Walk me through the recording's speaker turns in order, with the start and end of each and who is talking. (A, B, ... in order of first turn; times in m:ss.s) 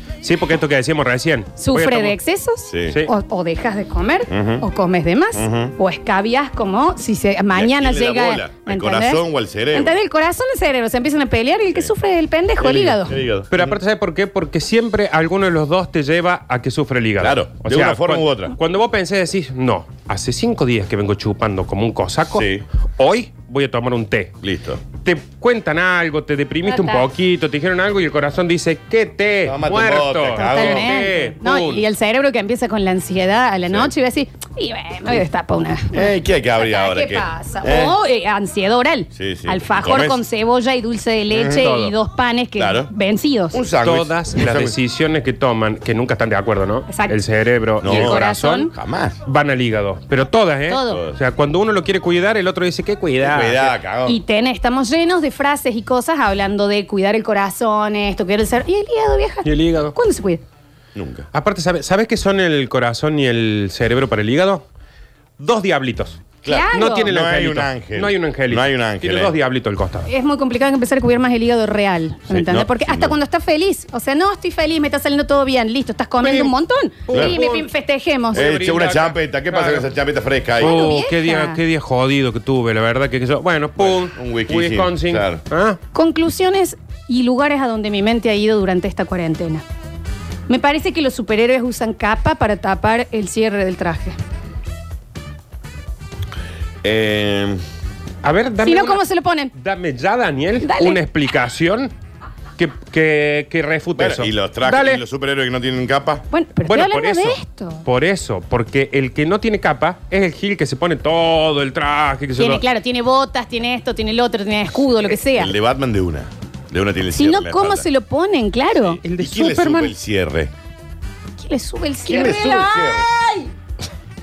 0:00.2-0:02.2 A
0:01.6-0:13.1 B
0:02.7-0:03.0 C
0:04.3-0:04.6 C
0:05.3-0:05.7 C
0:07.5-0:09.9 C
0:12.6-0:13.8 C
0:13.5-0:24.3 A
0:17.2-0:18.6 C
0:22.3-0:22.6 C
0:24.4-0:24.8 C
0:25.0-0:31.8 A
0:26.6-0:27.0 B
0:29.4-0:31.0 C
0:30.4-0:43.6 B
0:35.9-0:38.0 C
0:39.1-0:40.2 C
0:41.3-0:41.7 C
0:41.5-0:41.9 A
0:42.6-0:42.9 C
0:43.5-0:44.8 C
0:43.8-0:48.7 A
0:46.9-0:47.2 B
0:47.8-0:48.2 C
0:47.8-0:48.7 B
0:48.7-0:49.2 C
0:49.2-0:53.7 A
0:50.7-0:51.0 B
0:50.9-0:51.2 C
0:53.2-0:54.2 C
0:54.0-1:00.4 B
0:59.4-0:59.9 A
1:00.9-1:01.3 C
1:01.3-1:04.6 A
1:05.4-1:10.1 A
1:06.4-1:09.3 C
1:06.4-1:07.1 B
1:10.0-1:18.4 B
1:12.3-1:13.1 C
1:16.2-1:16.5 A
1:17.1-1:17.7 A
1:17.1-1:17.4 C
1:18.3-1:19.8 A
1:18.3-1:20.8 C
1:20.6-1:25.8 A
1:20.6-1:21.6 B
1:23.8-1:25.4 C
1:25.9-1:29.6 B
1:30.5-1:34.2 B
1:36.8-1:37.6 C
1:38.2-1:41.9 A
1:38.6-1:39.5 B
1:40.6-1:41.0 B
1:42.6-1:45.0 A
1:44.0-1:46.2 C
1:46.3-1:47.8 B
1:46.7-1:52.6 A
1:52.4-1:55.5 B
1:55.1-1:57.8 C
1:57.1-1:59.0 B
1:58.8-2:00.5 C
1:59.0-1:59.9 A
2:01.4-2:03.5 B
2:02.0-2:03.1 C